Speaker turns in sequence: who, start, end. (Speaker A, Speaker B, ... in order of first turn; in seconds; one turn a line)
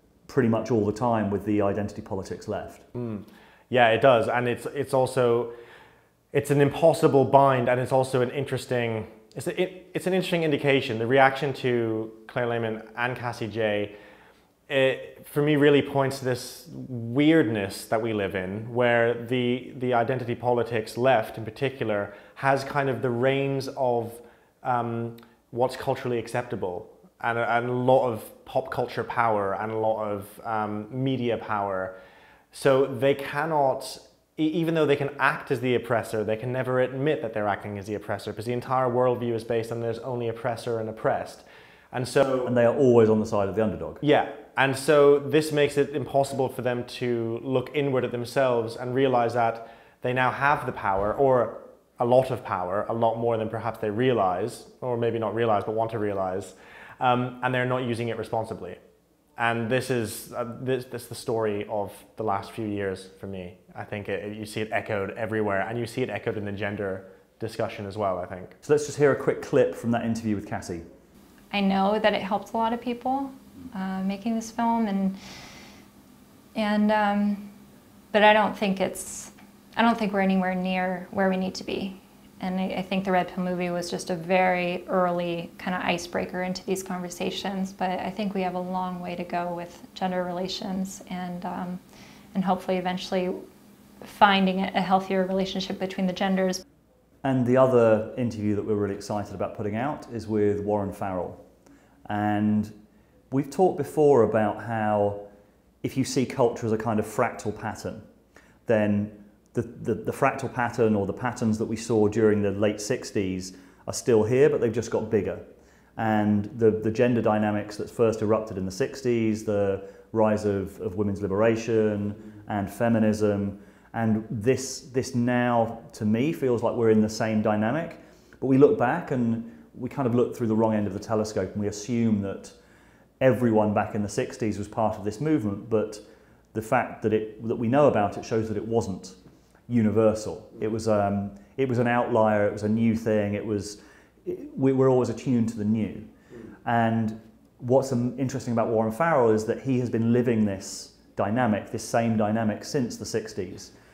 Speaker A: 0.3-2.9
Speaker B: 3.0-5.5
Speaker B: 6.3-13.9
Speaker B: 14.7-31.9
Speaker B: 32.5-42.5
Speaker A: 42.5-44.0
Speaker B: 44.0-58.8
Speaker B: 59.4-68.5
Speaker A: 68.6-70.8
Speaker C: 71.5-75.2
Speaker C: 76.5-77.5
Speaker C: 78.1-91.8
Speaker C: 92.3-93.4
Speaker C: 94.0-96.6
Speaker A: 97.2-101.4
Speaker A: 102.1-102.8
Speaker A: 103.3-105.3
Speaker A: 105.8-108.0
Speaker A: 108.7-132.6
Speaker A: 133.2-146.1
Speaker A: 146.6-153.7